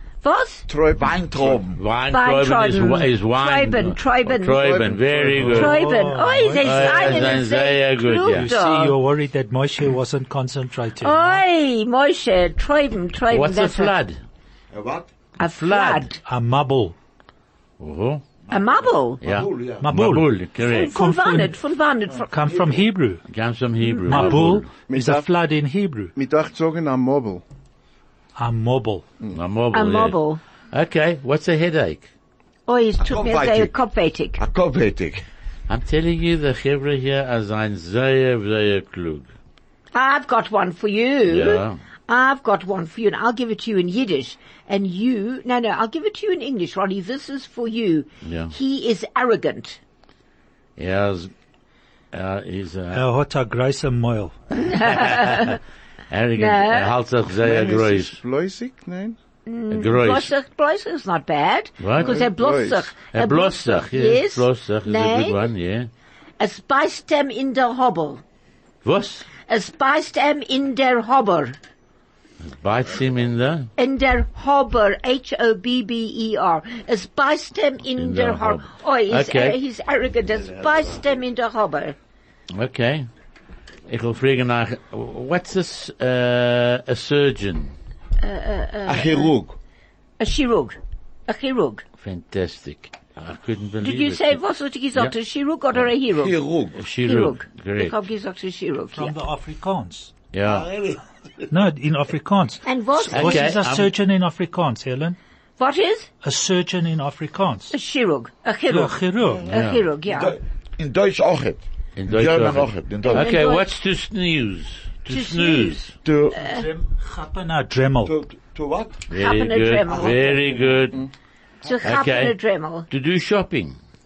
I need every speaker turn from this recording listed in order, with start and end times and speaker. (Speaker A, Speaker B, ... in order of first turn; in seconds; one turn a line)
Speaker A: 0.2-0.7
Speaker B: 0.7-1.6
Speaker C: 0.9-1.8
Speaker D: 1.7-5.8
Speaker A: 2.1-4.6
Speaker B: 4.6-5.6
Speaker E: 5.4-7.4
Speaker A: 5.5-8.9
Speaker D: 6.6-8.5
Speaker E: 8.3-11.4
Speaker A: 11.0-13.9
Speaker D: 13.3-14.2
Speaker C: 14.7-15.1
Speaker A: 15.4-16.2
Speaker D: 15.4-16.1
Speaker E: 16.2-16.9
Speaker D: 17.8-18.2
Speaker A: 18.5-19.2
Speaker C: 18.5-19.9
Speaker D: 19.2-20.9
Speaker E: 19.8-20.3
Speaker A: 20.6-22.3
Speaker E: 20.9-21.6
Speaker E: 22.3-23.2
Speaker C: 22.4-22.8
Speaker D: 23.3-24.7
Speaker A: 23.9-24.1
Speaker E: 24.1-26.1
Speaker B: 24.9-25.3
Speaker B: 26.1-27.4
Speaker E: 28.4-29.1
Speaker D: 29.3-30.2
Speaker A: 29.7-30.4
Speaker D: 30.7-32.1
Speaker A: 32.7-34.4
Speaker C: 33.0-33.7
Speaker C: 34.4-35.2
Speaker D: 35.7-39.3
Speaker A: 39.9-49.8
Speaker D: 41.3-41.8
Speaker D: 48.2-48.5
Speaker D: 50.8-51.3
Speaker D: 52.1-53.0
Speaker E: 52.9-54.3
Speaker A: 54.5-55.6
Speaker D: 54.8-55.6
Speaker D: 56.1-58.1
Speaker A: 56.4-56.9
Speaker B: 57.3-59.2
Speaker A: 59.5-65.5
Speaker D: 59.7-60.3
Speaker D: 61.8-62.1
Speaker B: 61.9-62.9
Speaker D: 63.1-65.9
Speaker A: 66.4-68.2
Speaker D: 68.8-69.3
Speaker A: 69.5-71.6
Speaker D: 72.4-73.7
Speaker A: 73.8-82.0
Speaker D: 77.9-79.6
Speaker D: 82.5-83.1
Speaker D: 83.9-87.7
Speaker A: 88.2-89.3
Speaker C: 88.8-89.6
Speaker A: 90.2-91.8
Speaker D: 92.0-94.4
Speaker A: 93.8-96.3
Speaker C: 96.1-96.8
Speaker D: 96.8-98.0
Speaker A: 97.0-99.1
Speaker E: 98.9-100.1
Speaker D: 100.3-100.7
Speaker C: 100.4-101.0
Speaker E: 101.5-105.2
Speaker A: 102.6-103.5
Speaker D: 103.1-103.9
Speaker A: 105.6-106.1
Speaker E: 106.2-107.7
Speaker A: 107.7-110.3
Speaker E: 108.7-109.5
Speaker D: 109.5-109.8
Speaker C: 110.0-113.3
Speaker D: 112.0-115.9
Speaker A: 113.1-113.7
Speaker A: 115.1-116.7
Speaker C: 116.0-116.4
Speaker E: 116.4-118.1
Speaker C: 118.0-119.0
Speaker D: 119.1-121.0
Speaker A: 119.2-120.3
Speaker C: 119.9-121.0
Speaker A: 121.6-122.9
Speaker D: 121.8-122.3
Speaker D: 122.9-123.8